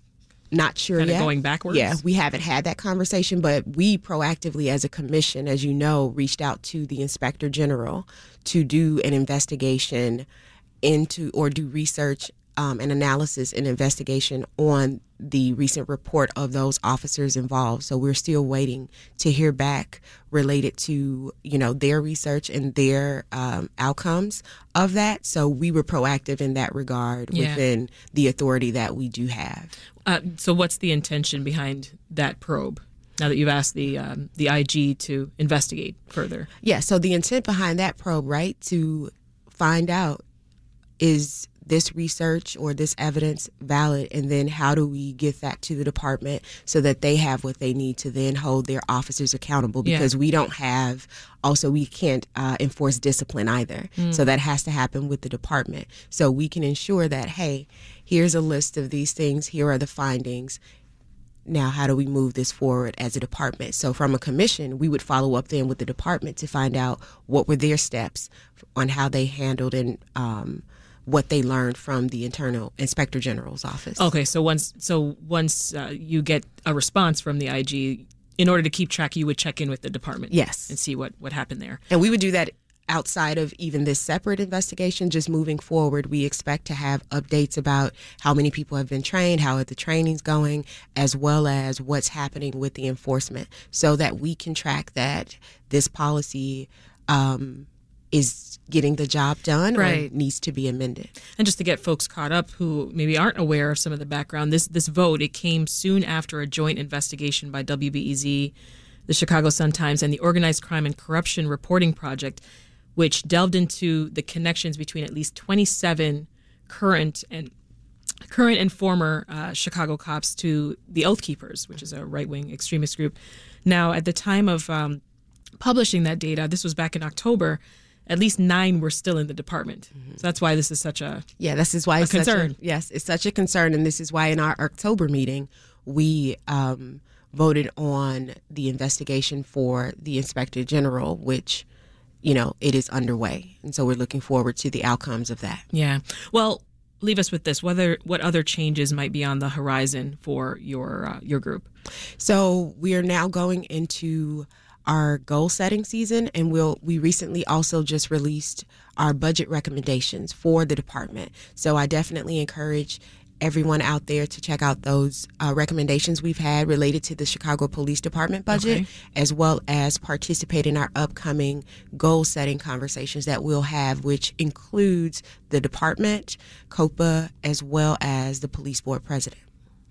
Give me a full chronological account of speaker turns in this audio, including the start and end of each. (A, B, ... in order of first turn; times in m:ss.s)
0:00.5-0:10.2 A
0:01.0-0:02.0 B
0:10.8-0:29.7 A
0:27.3-0:27.6 B
0:30.0-0:36.5 B
0:36.6-0:40.2 A
0:41.0-1:00.6 A
0:49.8-0:50.1 B
0:54.0-0:54.2 B
1:01.4-1:14.1 A
1:14.0-1:21.8 B
1:20.3-1:20.7 A
1:21.9-1:41.1 A
1:39.7-1:40.1 B
1:41.4-1:48.5 B
1:49.1-1:52.4 B
1:53.0-1:57.5 B
1:58.3-2:05.0 B
2:05.6-2:11.2 B
2:11.4-2:21.6 A
2:12.0-2:12.5 B
2:22.2-2:25.6 A
2:25.7-2:31.7 B
2:32.2-2:59.4 A
2:48.5-2:48.8 B